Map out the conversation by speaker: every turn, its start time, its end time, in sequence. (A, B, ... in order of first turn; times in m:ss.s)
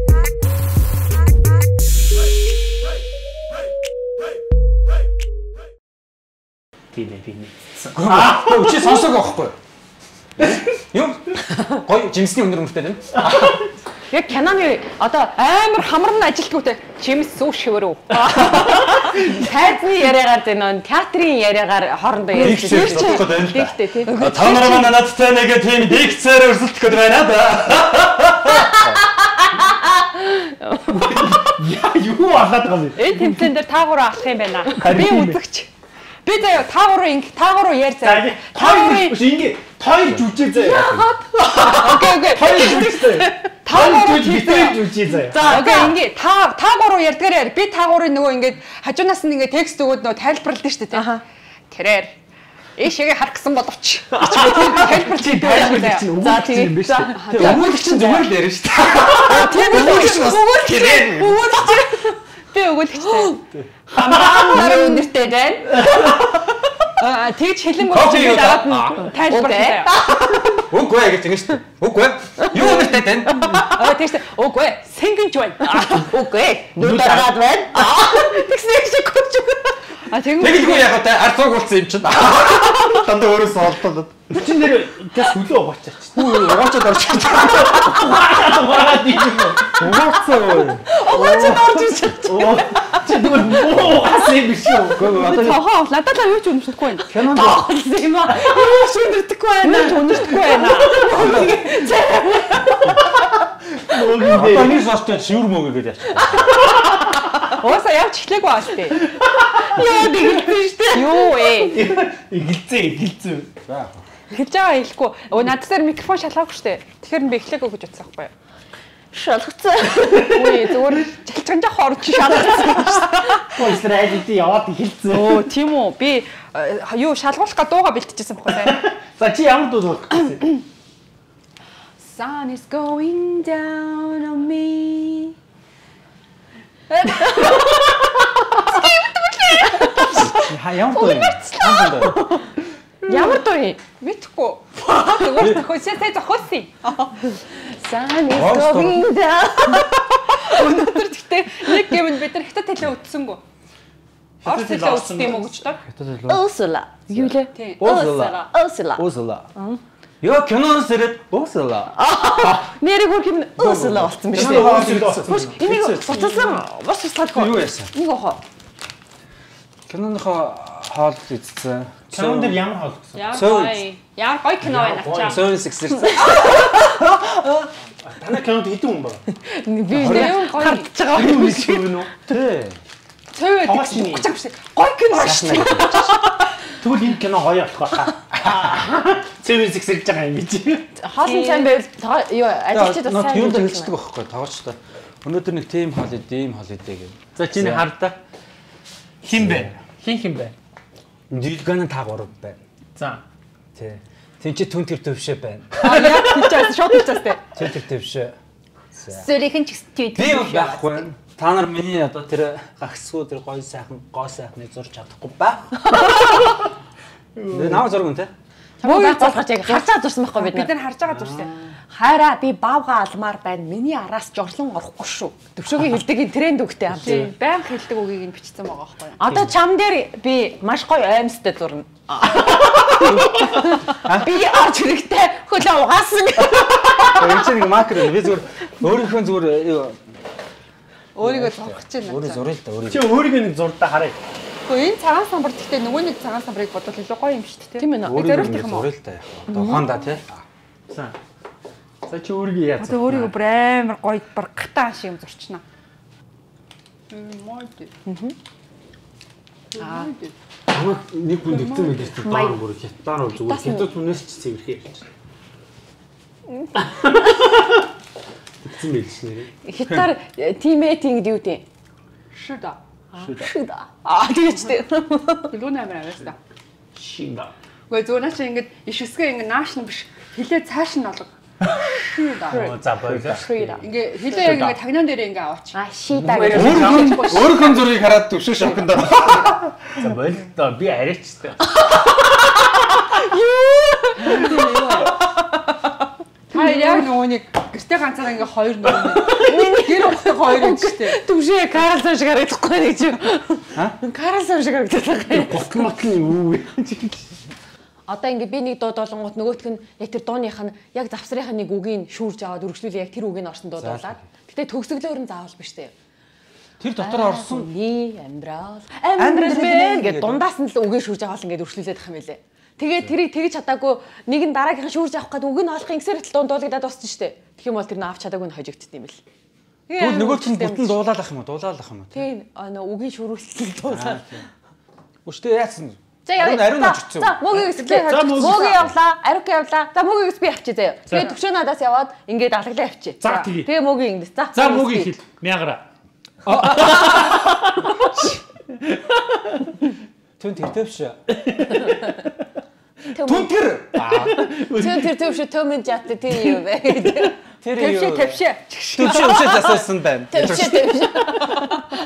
0:06.9-0:09.1 A
0:07.9-0:09.6 B
0:10.4-0:13.5 B
0:13.1-0:13.6 A
0:14.1-0:15.5 C
0:15.4-0:18.2 D
0:18.1-0:25.0 C
0:18.4-0:19.2 A
0:22.3-0:24.1 D
0:22.3-0:29.1 B
0:29.6-0:31.5 C
0:30.9-0:33.3 A
0:33.0-0:35.7 D
0:34.8-0:35.4 A
0:36.2-0:39.2 D
0:38.0-0:45.9 A
0:40.6-0:51.2 D
0:45.1-0:46.0 C
0:50.9-0:51.2 C
0:51.7-0:52.2 D
0:52.8-0:56.1 D
0:54.2-0:57.2 A
0:56.1-0:58.3 C
0:57.1-0:57.7 D
0:57.3-1:01.6 B
0:59.2-1:03.4 D
0:59.3-1:00.2 C
1:02.9-1:06.4 C
1:04.0-1:04.6 A
1:04.1-1:05.6 D
1:05.7-1:06.4 A
1:07.0-1:10.0 D
1:07.8-1:09.1 B
1:09.2-1:10.6 C
1:10.1-1:13.6 B
1:12.4-1:14.0 C
1:13.7-1:16.0 D
1:15.6-1:19.8 C
1:16.8-1:17.3 A
1:20.1-1:20.9 D
1:20.3-1:24.3 B
1:24.3-1:26.4 A
1:26.1-1:28.1 B
1:27.2-1:29.8 A
1:29.8-1:30.9 B
1:30.9-1:33.5 C
1:31.1-1:35.1 A
1:33.5-1:34.0 B
1:34.9-1:35.6 B
1:35.0-1:37.1 D
1:37.1-1:37.6 B
1:37.1-1:43.0 C
1:39.6-1:41.0 D
1:41.1-1:41.6 B
1:43.2-1:44.8 A
1:44.3-1:46.6 B
1:46.1-1:46.5 C
1:47.4-1:49.1 D
1:49.2-1:50.4 A
1:49.6-1:51.7 C
1:50.9-1:51.8 D
1:51.7-1:53.5 A
1:53.7-1:54.0 B
1:54.3-1:58.3 D
1:59.1-2:00.4 C
2:00.0-2:00.8 A
2:00.2-2:03.6 D
2:02.4-2:02.8 A
2:03.3-2:05.5 A
2:05.1-2:08.8 D
2:08.5-2:10.4 A
2:12.0-2:15.3 D
2:16.9-2:18.0 D
2:18.5-2:20.4 D
2:19.8-2:20.3 C
2:20.1-2:22.2 B
2:20.9-2:22.2 D
2:22.0-2:22.4 C
2:23.0-2:23.8 C
2:24.0-2:27.3 D
2:25.3-2:25.6 B
2:27.6-2:30.6 C
2:28.3-2:29.1 B
2:30.3-2:33.4 D
2:34.4-2:35.6 A
2:34.4-2:35.8 D
2:35.8-2:36.4 B
2:36.3-2:39.8 C
2:37.1-2:39.5 B
2:37.5-2:37.8 D
2:40.2-2:42.6 B
2:41.9-2:48.4 C
2:43.6-2:46.6 B
2:44.3-2:45.5 A
2:47.3-2:47.9 B
2:49.9-2:52.6 B
2:52.1-2:53.4 A
2:53.1-2:55.5 D
2:53.3-2:53.8 B
2:54.6-2:55.5 A
2:55.1-2:56.8 B
2:56.3-2:56.5 C
2:58.0-2:59.2 A
2:59.4-3:02.0 C
3:00.0-3:00.3 A
3:00.0-3:00.2 B
3:00.0-3:00.9 D
3:01.1-3:02.1 A
3:02.2-3:02.8 B
3:03.3-3:06.4 D
3:03.6-3:04.3 A
3:05.1-3:06.0 B
3:06.8-3:10.9 A
3:11.0-3:13.9 C
3:11.2-3:11.8 D
3:12.7-3:17.8 B
3:17.4-3:18.2 A
3:19.2-3:20.5 A
3:19.3-3:19.7 B
3:21.3-3:22.6 B
3:23.0-3:23.2 A
3:23.7-3:26.6 B
3:25.8-3:27.5 D
3:27.5-3:28.4 B
3:28.9-3:29.3 B
3:29.1-3:31.0 D
3:30.1-3:36.3 B
3:35.9-3:36.4 C
3:37.4-3:38.0 A
3:37.5-3:38.3 B
3:38.8-3:40.7 C
3:38.8-3:41.5 D
3:41.2-3:41.4 B
3:41.9-3:47.3 C
3:47.0-3:49.2 D
3:49.2-3:57.2 C
3:53.0-3:54.3 B
3:56.6-3:57.2 A
3:57.1-4:00.0 B
4:01.2-4:02.4 D
4:01.2-4:03.1 B
4:02.9-4:04.2 A
4:04.7-4:08.9 D
4:07.8-4:08.6 C
4:08.0-4:10.4 B
4:09.5-4:09.9 C
4:10.9-4:11.2 A
4:12.0-4:13.3 A
4:12.8-4:15.6 D
4:17.1-4:17.9 D
4:18.0-4:18.4 C
4:19.7-4:20.3 D
4:19.8-4:20.1 C
4:20.7-4:25.0 A
4:21.4-4:22.4 D
4:22.3-4:22.6 C
4:26.6-4:27.1 C
4:26.7-4:27.8 A
4:28.6-4:29.5 A
4:29.6-4:31.6 C
4:32.3-4:32.8 D
4:33.1-4:35.5 C
4:33.2-4:33.5 B
4:35.5-4:36.4 D
4:36.9-4:37.5 A
4:37.9-4:42.7 D
4:42.4-4:43.8 A
4:42.5-4:43.8 C
4:43.0-4:43.8 B
4:43.8-4:45.8 D
4:44.3-4:44.8 A
4:45.7-4:47.5 C
4:46.1-4:47.4 A
4:46.2-4:49.9 B
4:46.6-4:47.9 D
4:48.6-4:48.9 C
4:49.3-4:51.8 A
4:51.7-4:55.6 C
4:54.2-4:55.1 D
4:56.5-4:57.1 C
4:56.5-5:01.2 D
4:59.2-5:05.7 C
5:05.3-5:07.4 A
5:08.1-5:15.9 C
5:13.8-5:14.2 B
5:16.8-5:17.7 B
5:17.0-5:29.2 C
5:19.2-5:20.4 B
5:29.9-5:31.0 C
5:30.0-5:32.2 B
5:32.1-5:34.4 C
5:33.9-5:34.5 B
5:35.2-5:37.4 B
5:36.2-5:45.1 C
5:37.6-5:38.9 A
5:37.7-5:38.8 D
5:41.1-5:41.4 A
5:43.2-5:43.7 A
5:44.5-5:45.8 A
5:46.4-5:47.3 B
5:46.5-5:49.7 A
5:46.7-5:47.3 C
5:50.4-5:51.2 B
5:51.3-5:52.4 A
5:53.1-5:53.5 C
5:53.2-5:54.4 B
5:53.9-5:55.2 A
5:54.4-5:57.4 C
5:57.6-5:58.4 B
5:57.7-5:59.8 D
5:58.9-6:01.2 B
6:00.3-6:01.9 C